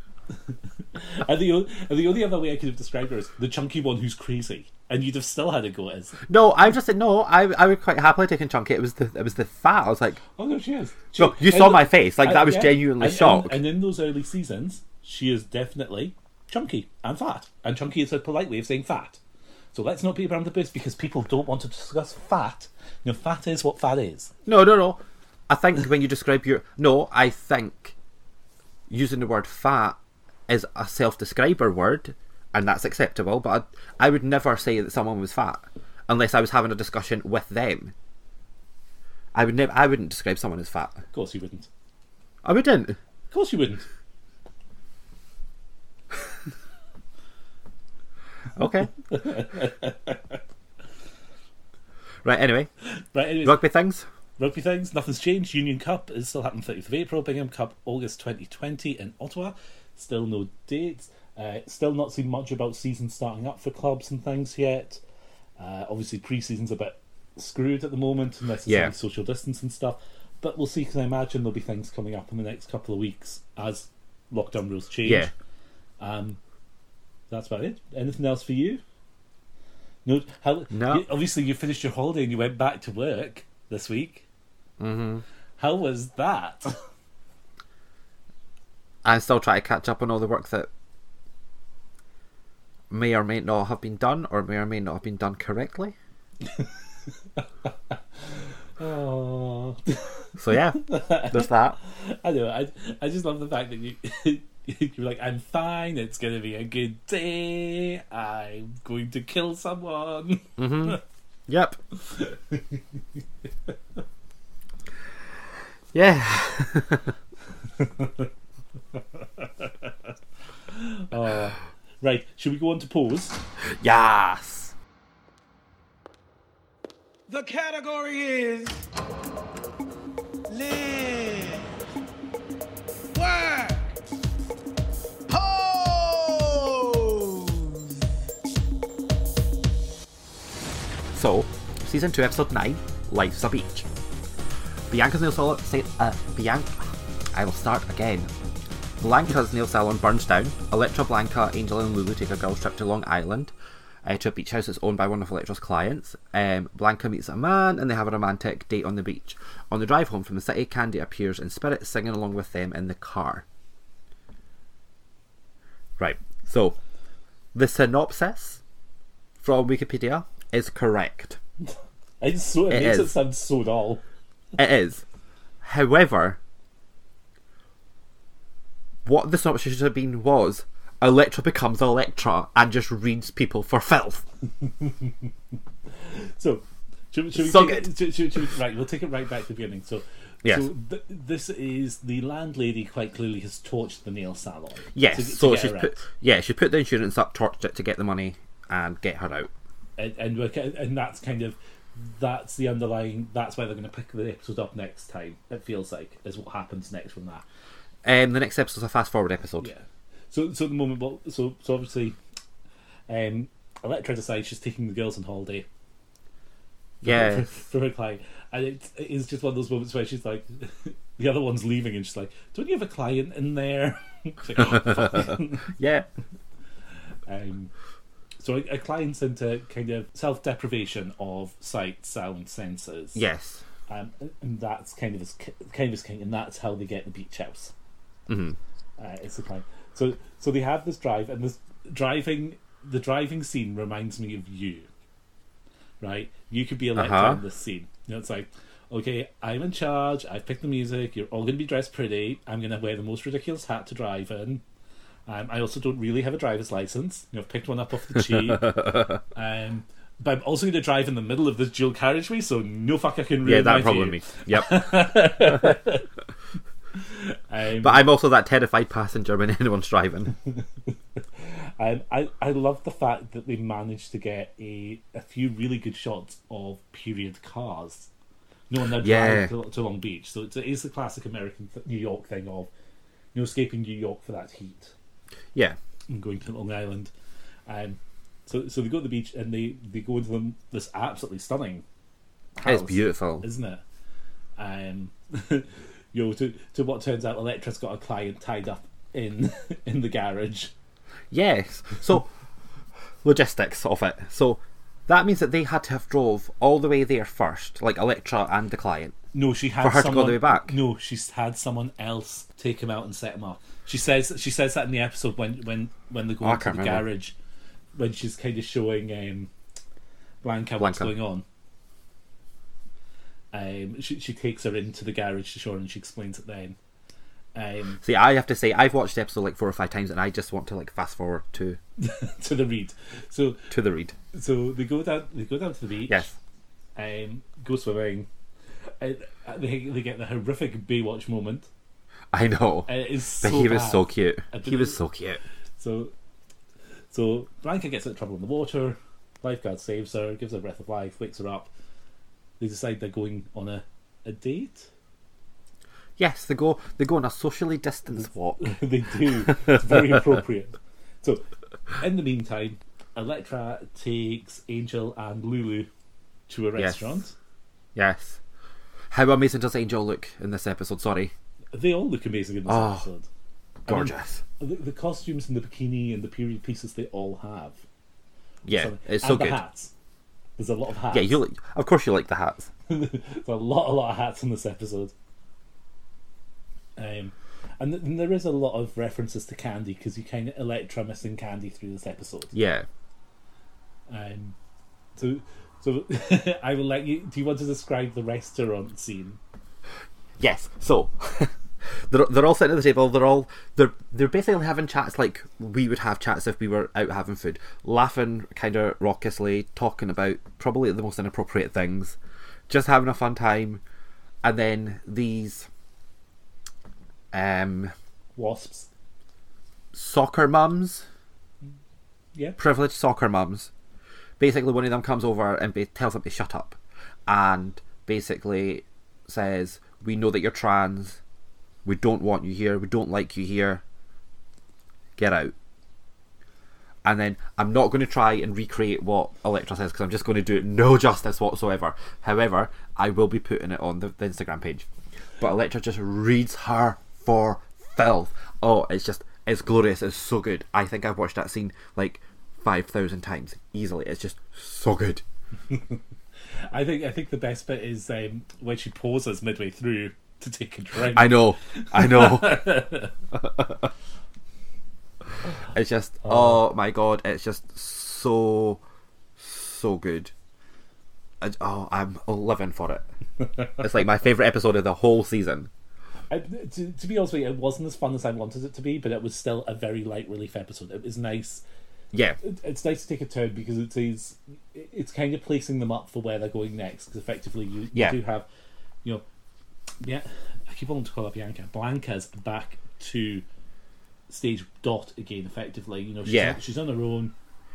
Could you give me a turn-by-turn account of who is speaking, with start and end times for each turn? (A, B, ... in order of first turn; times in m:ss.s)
0:00.9-0:06.2 A
0:06.3-0:10.2 B
0:10.4-0:19.2 A
0:11.2-0:13.6 B
0:19.7-0:24.3 A
0:24.5-0:28.0 B
0:28.9-0:30.0 B
0:30.5-0:37.9 B
0:39.4-0:41.0 B
0:41.1-0:41.7 A
0:42.4-0:43.0 B
0:43.3-0:43.9 A
0:48.6-0:48.9 B
0:49.1-0:50.4 A
0:52.2-0:52.7 B
0:53.0-0:53.6 A
0:53.4-0:54.1 B
0:54.4-1:05.0 A
1:05.6-1:15.3 A
1:08.7-1:08.9 B
1:15.0-1:15.3 B
1:16.0-1:16.4 A
1:17.3-1:18.8 A
1:20.0-1:24.3 A
1:20.7-1:21.1 B
1:24.8-1:25.2 B
1:25.6-1:26.8 A
1:29.0-1:30.7 B
1:32.9-1:36.0 B
1:37.4-1:38.0 A
1:38.8-1:40.1 A
1:40.4-1:41.8 B
1:40.7-1:51.0 A
1:50.6-1:51.8 B
1:52.0-1:52.8 A
1:55.9-1:57.1 B
1:57.8-1:58.3 A
1:59.0-1:59.9 A
2:00.7-2:03.4 A
2:03.8-2:04.8 B
2:07.3-2:08.9 C
2:10.5-2:11.7 C
2:13.1-2:14.0 C
2:15.3-2:18.0 C
2:21.1-2:23.9 B
2:24.9-2:28.3 B
2:29.0-2:33.5 B
2:34.0-2:43.4 B
2:46.0-2:46.8 B
2:47.5-2:48.6 B
2:49.4-2:51.4 B
2:52.2-2:54.0 A
2:52.7-2:53.1 B
2:54.6-2:55.0 B
2:55.6-2:56.4 B
2:59.0-3:04.2 B
3:04.6-3:05.2 A
3:06.0-3:16.0 A
3:07.4-3:07.9 B
3:10.4-3:10.7 B
3:15.0-3:19.5 B
3:20.0-3:27.4 A
3:28.0-3:29.7 B
3:29.6-3:32.2 A
3:33.1-3:35.7 A
3:37.0-3:37.5 B
3:37.0-3:45.7 A
3:44.8-3:46.1 B
3:47.3-3:47.7 A
3:48.4-3:53.2 A
3:53.2-3:53.6 B
3:53.9-3:57.7 A
3:58.3-3:58.6 B
3:59.0-4:04.9 A
4:06.0-4:14.6 A
4:07.0-4:07.4 B
4:15.3-4:26.1 A
4:23.4-4:24.9 B
4:27.0-4:28.0 A
4:27.8-4:30.4 B
4:30.6-4:38.1 A
4:38.7-4:42.7 A
4:39.0-4:39.5 B
4:43.3-4:44.9 A
4:46.1-4:47.1 A
4:47.7-4:51.8 A
4:52.6-4:53.8 A
4:52.6-4:53.5 B
4:54.6-5:00.7 A
5:01.3-5:02.3 B
5:03.2-5:09.2 B
5:09.3-5:17.4 A
5:09.8-5:10.7 B
5:16.4-5:17.0 B
5:18.0-5:19.5 A
5:20.4-5:21.4 A
5:20.8-5:21.1 B
5:23.5-5:26.8 A
5:27.6-5:28.0 A
5:28.0-5:31.8 B
5:32.0-5:33.7 A
5:33.7-5:34.2 B
5:34.3-5:36.3 A
5:36.1-5:36.3 B
5:37.0-5:38.3 A
5:39.0-5:41.7 A
5:42.3-5:45.4 B
5:42.9-5:45.0 A
5:45.8-5:46.1 A
5:47.1-5:51.7 A
5:52.6-5:54.9 A
5:56.2-5:58.7 B
5:58.6-6:01.4 A
6:02.0-6:05.9 A
6:06.5-6:07.4 A
6:06.8-6:07.2 B
6:08.0-6:08.4 B
6:09.1-6:11.3 B
6:11.7-6:13.3 A
6:12.7-6:13.1 B
6:13.9-6:14.4 B
6:13.9-6:17.8 A
6:18.6-6:19.6 B
6:18.7-6:19.9 A
6:20.6-6:21.4 A
6:21.1-6:22.7 B
6:22.9-6:25.1 A
6:27.0-6:32.5 A
6:32.5-6:32.9 B
6:34.1-6:34.6 A
6:35.2-6:39.4 A
6:40.4-6:52.2 B
6:52.7-6:53.8 B
6:54.4-6:55.7 B
6:57.3-6:57.9 B
6:58.4-6:58.9 A
6:59.9-7:01.1 B
7:02.6-7:03.7 B
7:04.4-7:11.2 B
7:11.8-7:13.8 B
7:15.2-7:15.5 B
7:17.0-7:24.9 B
7:25.4-7:35.2 B
7:35.7-7:36.0 A
7:36.7-7:43.1 A
7:41.1-7:42.6 B
7:43.3-7:43.9 B
7:45.7-7:48.8 B
7:46.3-7:46.6 A
7:49.4-7:50.3 B
7:51.4-7:53.0 B
7:53.8-7:55.7 B
7:56.3-8:01.6 A
8:02.1-8:02.4 B
8:02.4-8:08.5 A
8:10.0-8:13.4 A
8:14.3-8:17.3 A
8:16.3-8:16.6 B